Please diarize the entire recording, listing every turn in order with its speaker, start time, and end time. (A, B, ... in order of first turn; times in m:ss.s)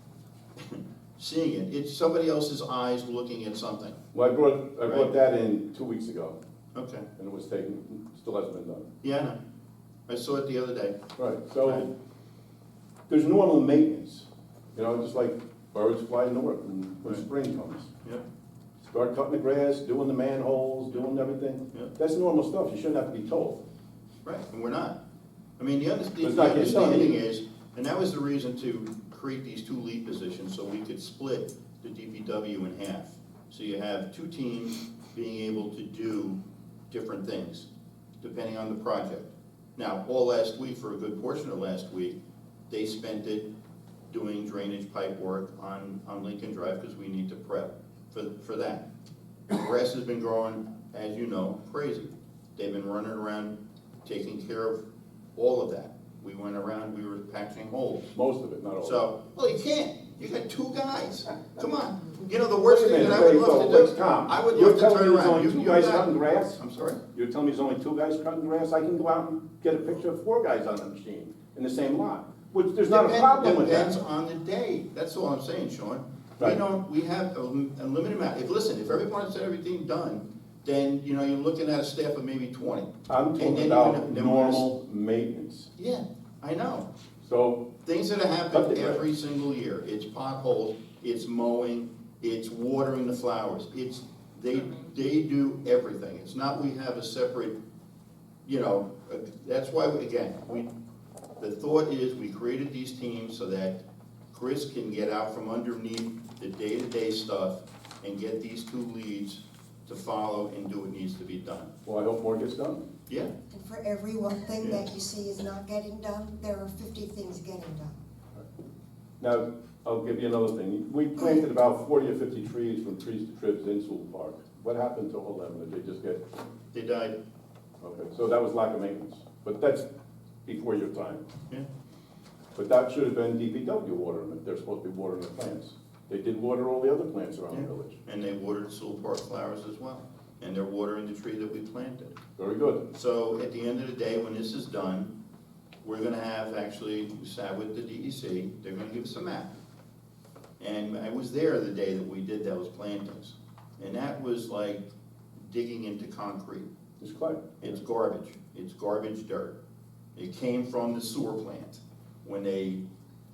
0:00.6-0:04.0 A
0:04.1-0:06.4 B
0:04.8-0:05.1 A
0:06.7-0:07.1 A
0:07.2-0:08.9 B
0:09.0-0:09.4 A
0:10.1-0:11.0 A
0:11.2-0:11.9 B
0:11.6-0:11.9 A
0:13.1-0:17.9 B
0:18.8-0:23.6 B
0:24.2-0:25.0 A
0:25.6-0:37.7 A
0:26.2-0:27.2 B
0:38.2-0:42.2 A
0:42.7-0:43.5 A
0:44.1-0:48.9 A
0:49.5-0:54.8 A
0:55.4-0:58.1 A
0:58.1-0:59.0 B
0:58.8-1:07.0 A
1:02.6-1:06.6 B
1:07.1-1:14.0 B
1:12.9-1:24.7 A
1:23.1-1:25.7 B
1:25.8-1:26.9 A
1:27.2-1:27.7 B
1:27.8-1:37.6 A
1:28.5-1:29.0 B
1:38.4-1:40.7 A
1:41.4-1:43.8 A
1:44.3-1:51.7 A
1:51.8-1:52.8 B
1:53.5-1:58.0 C
1:59.2-2:06.2 B
2:06.7-2:07.2 A
2:07.8-2:09.9 B
2:10.5-2:11.2 B
2:12.6-2:18.0 B
2:17.5-2:22.2 A
2:22.4-2:22.8 B
2:22.9-2:25.1 A
2:25.8-2:29.6 A
2:30.6-2:34.8 A
2:35.4-2:36.7 A
2:37.0-2:37.7 B
2:37.6-2:39.6 A
2:40.2-2:42.8 A